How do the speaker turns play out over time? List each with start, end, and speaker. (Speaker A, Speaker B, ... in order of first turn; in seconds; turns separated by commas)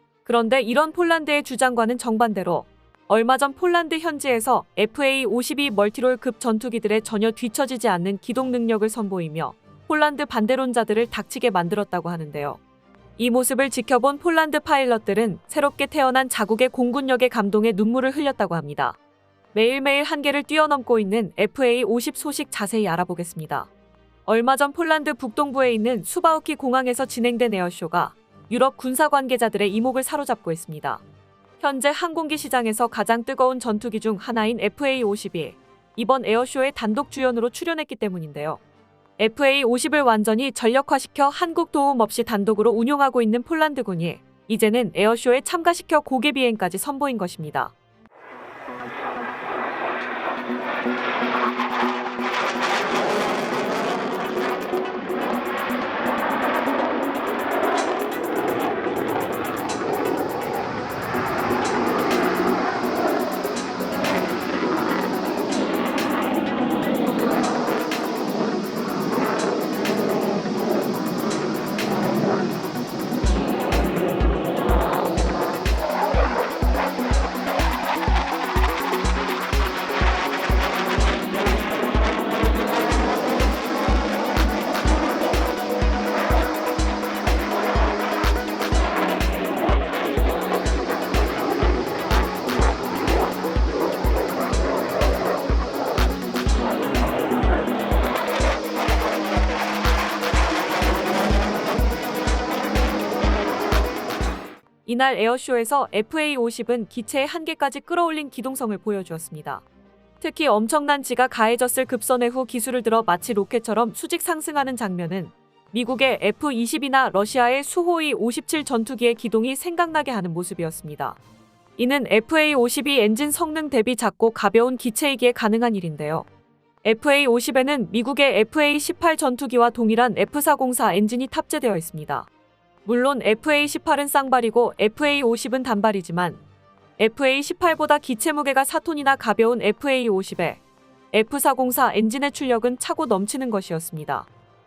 Speaker A: 0.2-12.6, Speaker A: 13.2-19.0, Speaker A: 19.5-23.7, Speaker A: 24.3-31.0, Speaker A: 31.6-38.6, Speaker A: 39.2-47.7, Speaker A: 104.9-109.7, Speaker A: 110.2-121.2, Speaker A: 121.8-126.3, Speaker A: 126.8-132.3, Speaker A: 132.8-136.4, Speaker A: 137.0-140.6, Speaker A: 141.1-144.3